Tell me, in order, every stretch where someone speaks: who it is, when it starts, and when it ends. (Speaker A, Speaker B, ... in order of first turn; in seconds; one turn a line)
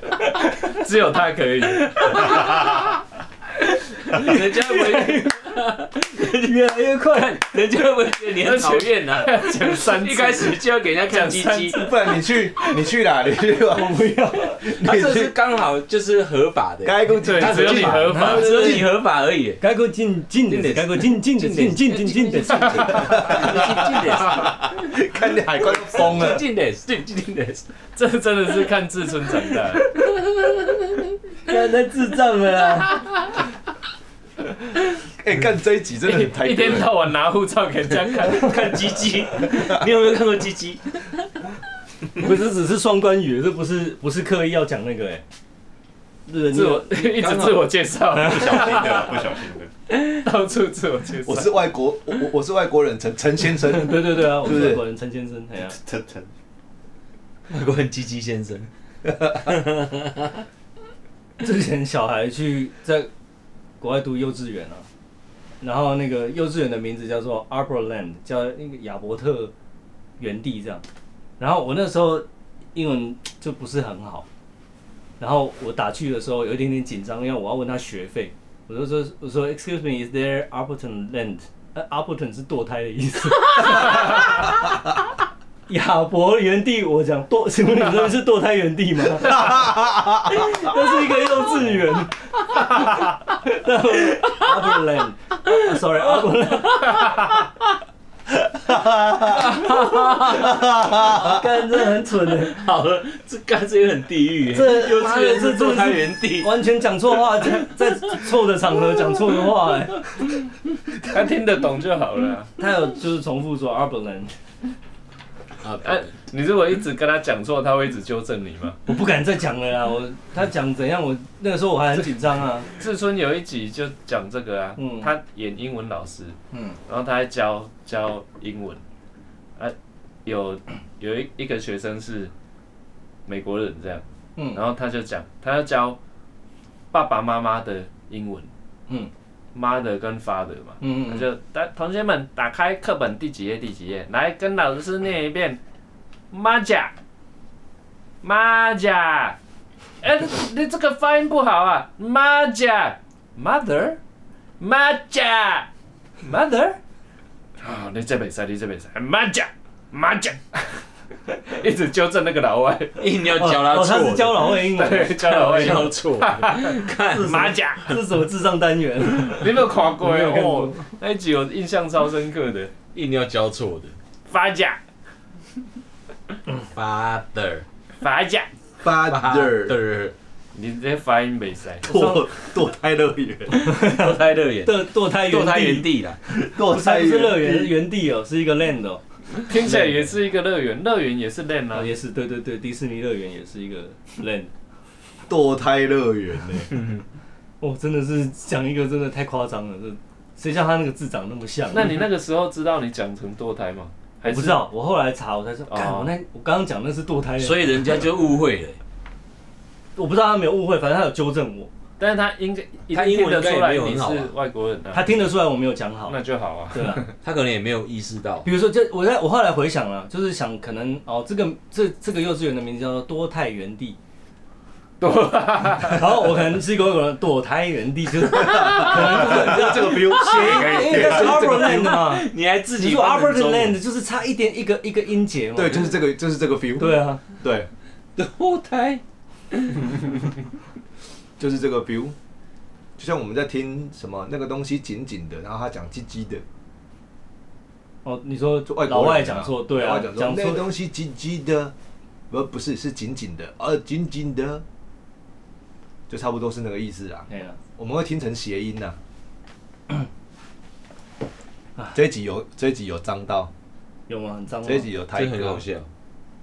Speaker A: 0.7-2.6
Speaker B: 1.9-2.9
Speaker C: 4.0-5.5
Speaker B: 4.1-6.6
Speaker C: 6.2-7.6
Speaker B: 7.3-11.9
Speaker A: 8.4-11.9
Speaker D: 11.7-14.0
Speaker C: 13.7-14.6
Speaker D: 14.6-15.3
Speaker B: 14.8-19.6
Speaker D: 16.8-18.9
Speaker A: 17.2-18.8
Speaker C: 18.1-18.9
Speaker C: 19.6-23.3
Speaker B: 20.4-24.9
Speaker D: 23.0-26.4
Speaker B: 25.6-27.6
Speaker A: 27.9-29.9
Speaker C: 31.5-33.0
Speaker D: 35.2-37.0
Speaker A: 36.0-39.0
Speaker B: 38.2-41.2
Speaker C: 42.2-45.2
Speaker C: 46.3-47.2
Speaker A: 46.5-49.3
Speaker B: 47.2-47.7
Speaker E: 48.1-49.7
Speaker A: 49.9-51.5
Speaker D: 51.2-54.8
Speaker C: 53.6-55.8
Speaker E: 55.7-56.3
Speaker B: 57.5-58.7
Speaker B: 59.3-60.4
Speaker C: 61.4-63.1
Speaker C: 63.8-64.8
Speaker C: 65.6-69.5
Speaker C: 70.2-70.8
Speaker C: 71.4-74.2
Speaker C: 75.2-84.5
Speaker C: 85.7-89.7
Speaker D: 89.3-90.5
Speaker C: 90.3-97.1
Speaker B: 96.7-97.4
Speaker D: 98.5-99.6
Speaker B: 99.2-101.4
Speaker D: 100.3-101.4
Speaker C: 101.0-102.6
Speaker B: 102.3-106.6
Speaker C: 104.5-110.1
Speaker B: 107.4-108.3
Speaker B: 109.0-109.3
Speaker A: 111.0-112.5
Speaker C: 112.6-114.3
Speaker B: 115.6-116.1
Speaker A: 115.8-118.8
Speaker C: 118.8-122.7
Speaker A: 122.7-126.3
Speaker C: 124.8-125.1
Speaker C: 126.5-126.8
Speaker A: 126.9-128.8
Speaker A: 130.2-132.3
Speaker A: 133.2-136.0
Speaker C: 134.4-134.6
Speaker A: 136.9-138.5
Speaker A: 139.5-145.6
Speaker C: 140.8-141.2
Speaker A: 146.3-146.9
Speaker A: 148.2-149.4
Speaker A: 150.0-154.0
Speaker A: 154.6-155.7
Speaker A: 156.2-156.8
Speaker A: 157.6-163.0
Speaker B: 163.0-168.0
Speaker C: 163.3-165.9
Speaker A: 164.6-167.8
Speaker C: 167.1-170.8
Speaker A: 169.3-172.7
Speaker B: 172.9-173.9
Speaker A: 174.3-174.8
Speaker B: 176.7-177.6
Speaker A: 178.0-178.5
Speaker D: 178.8-179.8
Speaker B: 179.0-180.1
Speaker A: 180.5-181.9
Speaker C: 181.8-182.3
Speaker D: 181.8-183.6
Speaker B: 183.5-186.2
Speaker C: 183.6-189.0
Speaker D: 186.3-187.7
Speaker A: 189.4-191.9
Speaker C: 191.7-194.5
Speaker D: 195.3-196.7
Speaker B: 196.8-197.0
Speaker C: 197.6-202.0
Speaker A: 201.7-204.7
Speaker C: 204.3-208.0
Speaker A: 205.7-206.1
Speaker B: 207.4-208.8
Speaker C: 209.9-211.7
Speaker A: 212.0-215.3
Speaker B: 212.9-214.3
Speaker C: 214.9-216.2
Speaker A: 216.1-217.1
Speaker C: 216.7-217.0
Speaker B: 217.2-218.5
Speaker C: 218.4-224.0
Speaker A: 225.0-226.1
Speaker C: 225.8-235.9
Speaker D: 228.3-231.5
Speaker B: 229.9-233.8
Speaker D: 235.5-237.7
Speaker C: 236.8-237.2
Speaker B: 238.2-239.0
Speaker B: 239.5-239.9
Speaker D: 241.4-242.1
Speaker D: 243.0-246.4
Speaker C: 248.0-250.6
Speaker D: 248.7-251.7
Speaker D: 252.3-254.6
Speaker D: 256.1-258.9
Speaker C: 257.3-257.6
Speaker D: 261.9-263.5
Speaker C: 264.1-264.9
Speaker D: 264.6-265.6
Speaker B: 265.1-265.9